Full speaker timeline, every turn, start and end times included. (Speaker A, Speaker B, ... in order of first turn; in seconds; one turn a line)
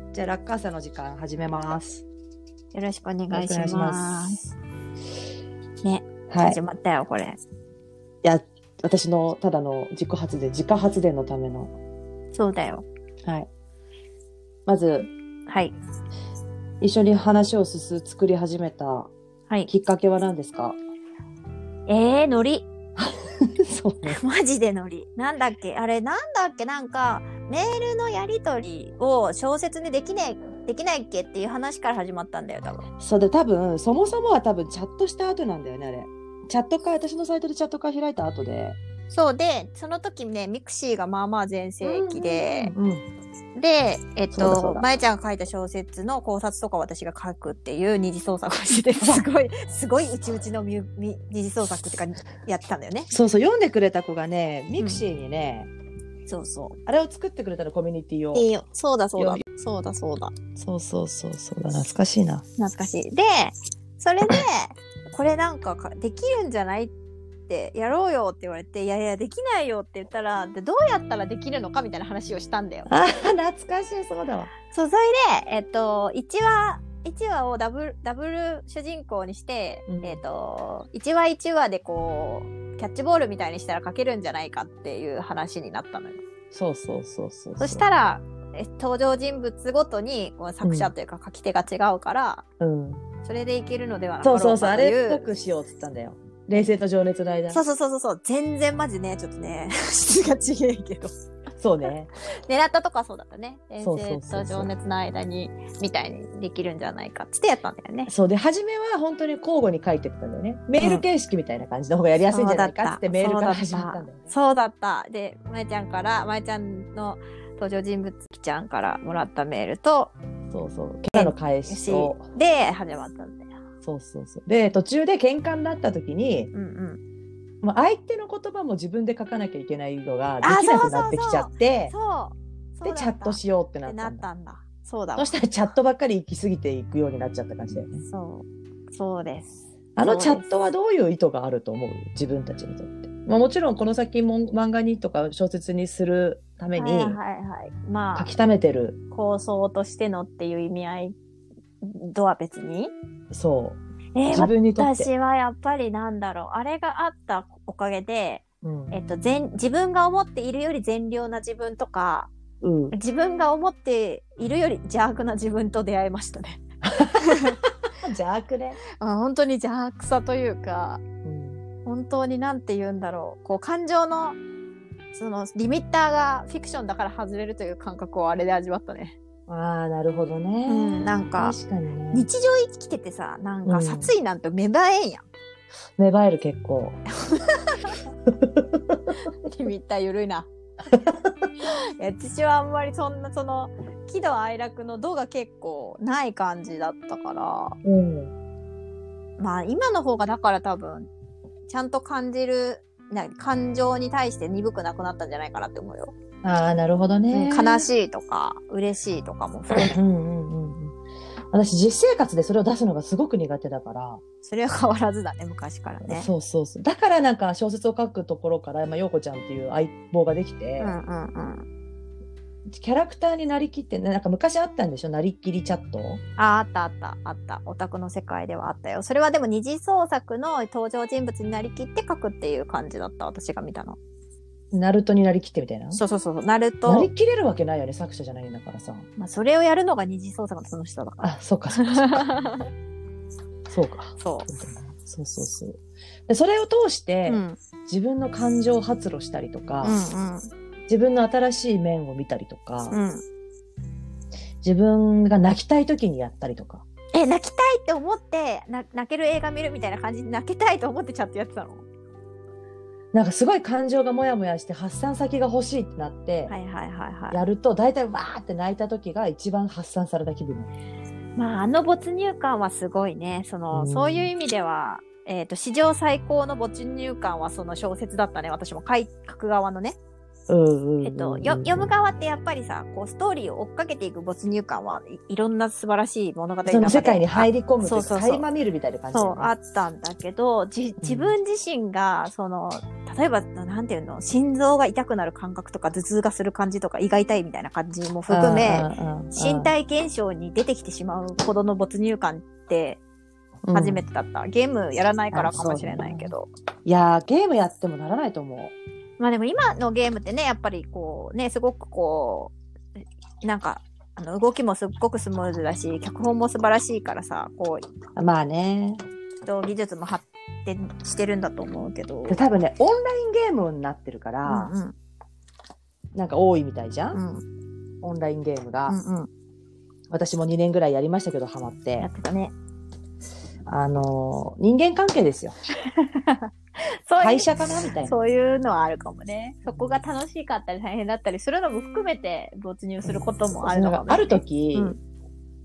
Speaker A: 0.1-2.0
Speaker B: 2.7-4.4
Speaker A: 3.3-4.5
Speaker B: 5.8-7.4
Speaker A: 6.3-6.6
Speaker A: 8.2-11.7
Speaker B: 12.3-12.8
Speaker A: 14.7-15.1
Speaker B: 15.5-15.8
Speaker A: 16.8-19.1
Speaker A: 19.7-20.8
Speaker B: 21.9-22.7
Speaker A: 23.0-24.2
Speaker B: 24.1-32.9
Speaker A: 33.0-38.8
Speaker B: 39.1-42.7
Speaker A: 41.8-43.0
Speaker B: 43.5-53.1
Speaker A: 44.3-44.8
Speaker A: 53.1-55.7
Speaker B: 54.8-55.0
Speaker B: 56.3-56.8
Speaker A: 56.9-58.5
Speaker B: 58.3-60.3
Speaker A: 59.2-59.4
Speaker A: 60.6-62.5
Speaker B: 62.6-66.9
Speaker B: 67.5-72.9
Speaker A: 72.9-74.5
Speaker B: 74.7-86.2
Speaker A: 79.9-80.2
Speaker A: 86.5-87.8
Speaker B: 87.6-92.4
Speaker A: 90.6-90.9
Speaker A: 92.6-93.0
Speaker B: 93.2-95.3
Speaker A: 94.2-97.6
Speaker B: 97.5-101.1
Speaker A: 101.6-102.1
Speaker B: 102.5-108.1
Speaker A: 103.8-104.7
Speaker A: 108.1-114.3
Speaker B: 110.8-111.0
Speaker B: 112.3-120.1
Speaker A: 120.5-122.2
Speaker B: 121.1-123.5
Speaker A: 123.8-126.5
Speaker B: 126.5-127.0
Speaker A: 127.6-131.9
Speaker B: 130.4-135.3
Speaker A: 132.8-134.2
Speaker A: 135.2-138.0
Speaker B: 138.1-140.5
Speaker A: 139.9-147.2
Speaker B: 146.8-148.3
Speaker A: 148.2-149.0
Speaker B: 149.1-151.2
Speaker B: 151.8-152.9
Speaker A: 153.3-155.1
Speaker B: 154.1-162.3
Speaker A: 158.6-158.9
Speaker A: 162.6-162.9
Speaker B: 162.9-166.6
Speaker A: 166.9-168.8
Speaker B: 167.2-167.6
Speaker B: 169.0-171.0
Speaker A: 171.2-171.6
Speaker B: 171.8-174.4
Speaker B: 175.1-179.2
Speaker A: 179.5-182.3
Speaker B: 180.7-181.6
Speaker B: 182.1-185.2
Speaker A: 183.6-184.1
Speaker A: 186.0-187.0
Speaker B: 187.3-188.0
Speaker A: 188.4-189.0
Speaker B: 189.2-190.5
Speaker A: 190.9-191.3
Speaker B: 191.6-197.8
Speaker A: 197.8-198.3
Speaker B: 199.4-201.1
Speaker B: 201.7-206.1
Speaker A: 206.4-207.9
Speaker B: 207.3-209.9
Speaker A: 209.7-210.9
Speaker A: 211.5-214.2
Speaker B: 214.4-216.3
Speaker A: 216.0-220.9
Speaker B: 220.8-221.7
Speaker A: 222.7-226.2
Speaker B: 226.4-234.0
Speaker A: 234.7-236.0
Speaker B: 235.9-237.1
Speaker A: 236.8-239.1
Speaker B: 239.2-242.6
Speaker A: 241.2-242.3
Speaker A: 243.7-250.0
Speaker B: 244.2-244.5
Speaker B: 247.2-247.6
Speaker B: 249.8-250.5
Speaker A: 250.9-252.9
Speaker B: 252.9-253.2
Speaker A: 254.6-256.8
Speaker B: 257.1-261.9
Speaker A: 263.1-266.5
Speaker B: 266.5-267.4
Speaker A: 267.3-270.7
Speaker B: 271.4-280.0
Speaker A: 273.7-274.3
Speaker A: 280.5-281.9
Speaker B: 281.0-288.4
Speaker A: 286.6-289.5
Speaker B: 289.1-303.0
Speaker A: 291.0-291.4
Speaker A: 298.3-299.7
Speaker A: 303.6-304.0
Speaker B: 303.7-306.5
Speaker A: 305.3-306.3
Speaker A: 306.8-308.7
Speaker B: 309.2-312.5
Speaker B: 313.4-317.9
Speaker A: 318.1-319.0
Speaker B: 319.4-322.4
Speaker A: 322.3-324.7
Speaker B: 324.4-324.9
Speaker A: 326.1-327.2
Speaker B: 327.1-327.4
Speaker A: 328.0-329.0
Speaker B: 328.9-329.3
Speaker A: 330.1-332.1
Speaker B: 332.0-332.5
Speaker A: 333.7-335.5
Speaker B: 336.0-336.5
Speaker B: 337.1-337.5
Speaker A: 337.2-338.1
Speaker B: 338.0-345.0
Speaker A: 339.7-340.0
Speaker A: 343.0-344.9